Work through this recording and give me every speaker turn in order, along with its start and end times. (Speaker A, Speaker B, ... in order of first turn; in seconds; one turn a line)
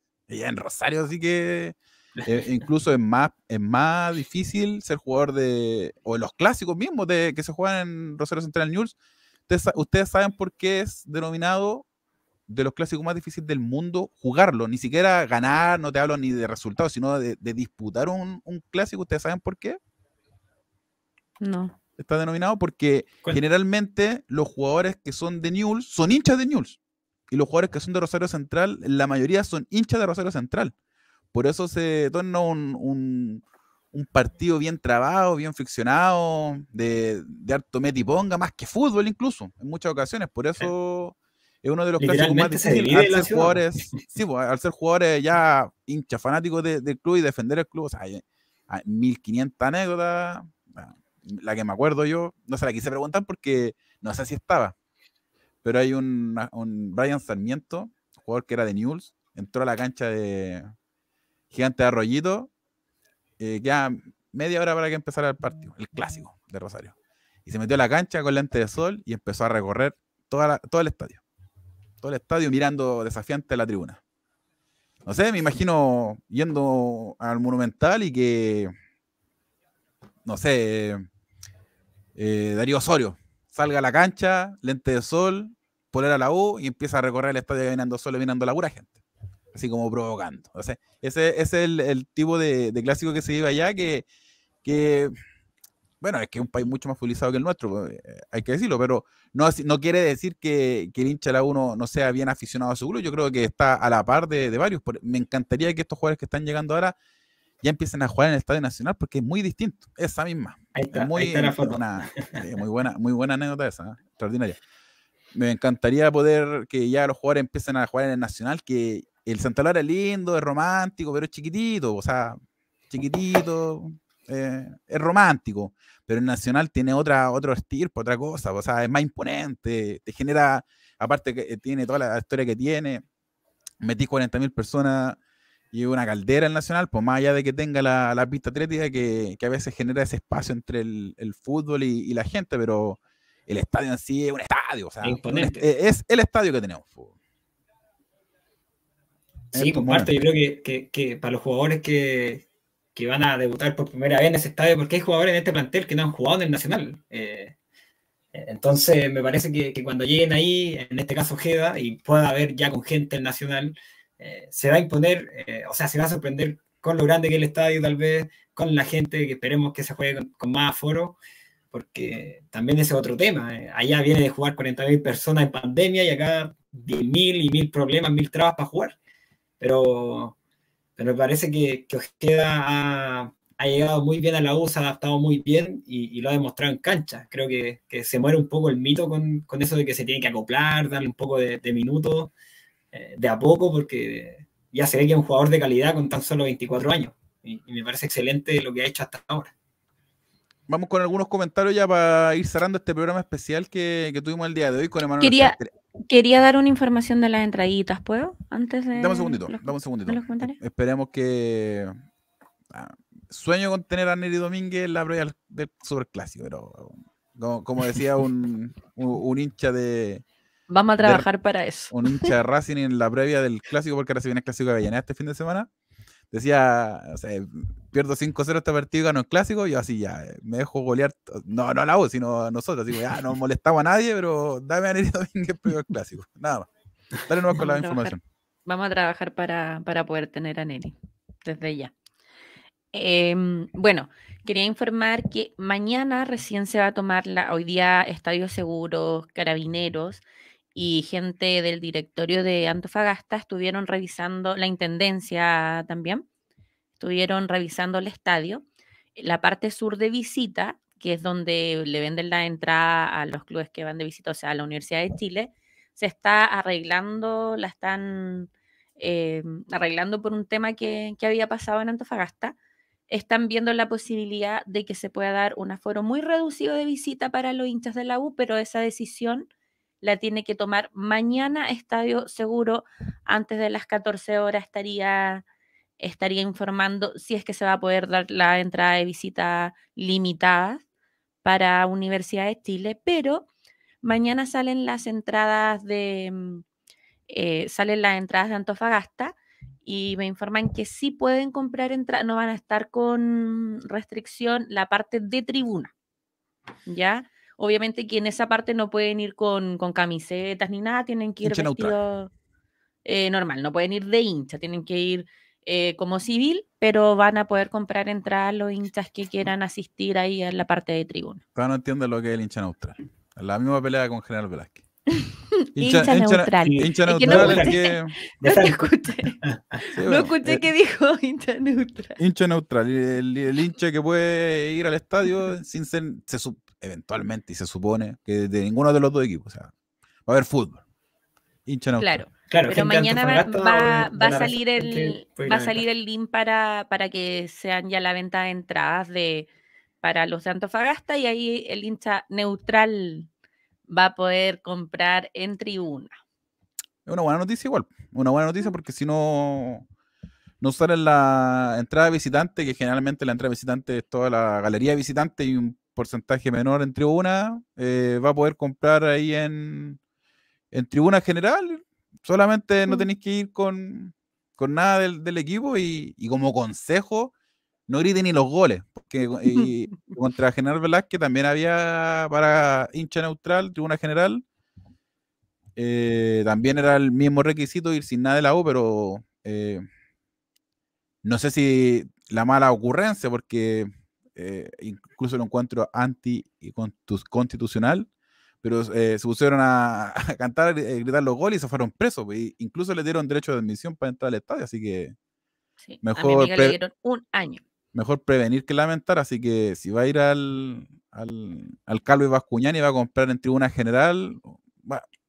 Speaker A: 0.3-8.9
Speaker A: 9.5-11.8
Speaker A: 12.5-19.8
Speaker B: 21.4-21.7
Speaker A: 22.0-26.8
Speaker A: 27.3-30.7
Speaker A: 31.3-54.7
Speaker C: 42.0-44.0
Speaker A: 55.6-60.7
Speaker A: 61.5-62.5
Speaker A: 63.4-66.9
Speaker A: 67.5-71.2
Speaker A: 72.0-74.0
Speaker A: 75.0-78.7
Speaker A: 80.2-81.0
Speaker A: 82.2-89.0
Speaker A: 89.5-94.0
Speaker A: 94.6-95.1
Speaker A: 96.0-107.0
Speaker A: 107.6-114.6
Speaker C: 110.7-112.4
Speaker A: 115.3-122.4
Speaker A: 122.9-133.0
Speaker A: 133.8-135.2
Speaker A: 135.7-147.1
Speaker C: 145.0-145.7
Speaker A: 149.5-150.1
Speaker C: 149.5-157.6
Speaker C: 158.3-171.2
Speaker C: 171.7-178.9
Speaker C: 179.6-180.3
Speaker C: 181.0-192.3
Speaker C: 192.9-199.5
Speaker A: 200.7-205.7
Speaker B: 205.2-205.6
Speaker B: 206.1-210.6
Speaker A: 208.9-211.9
Speaker A: 212.7-220.2
Speaker B: 220.7-222.3
Speaker A: 221.0-221.3
Speaker A: 221.9-225.7
Speaker A: 226.3-236.7
Speaker A: 237.3-238.2
Speaker B: 237.6-238.1
Speaker B: 238.7-241.9
Speaker B: 242.9-250.2
Speaker B: 250.7-256.2
Speaker B: 257.0-258.6
Speaker B: 259.2-272.6
Speaker B: 273.1-279.5
Speaker B: 280.0-285.4
Speaker B: 286.0-290.8
Speaker B: 291.4-293.5
Speaker B: 294.0-296.6
Speaker B: 297.3-305.9
Speaker B: 306.9-312.3
Speaker A: 311.4-311.9
Speaker B: 313.1-321.4
Speaker A: 321.6-324.8
Speaker B: 325.3-332.2
Speaker A: 325.8-328.1
Speaker C: 326.6-327.8
Speaker C: 328.4-329.6
Speaker A: 329.9-330.7
Speaker A: 332.2-339.7
Speaker A: 340.3-340.8
Speaker A: 341.7-342.2
Speaker B: 342.0-349.5
Speaker C: 342.5-345.8
Speaker B: 350.0-353.3
Speaker B: 353.9-356.2
Speaker A: 357.1-359.9
Speaker A: 360.6-370.0
Speaker A: 370.7-377.3
Speaker A: 377.9-384.4
Speaker A: 385.8-389.8
Speaker A: 391.2-398.1
Speaker A: 398.6-405.1
Speaker B: 405.8-407.6
Speaker A: 406.0-406.8
Speaker A: 407.9-415.0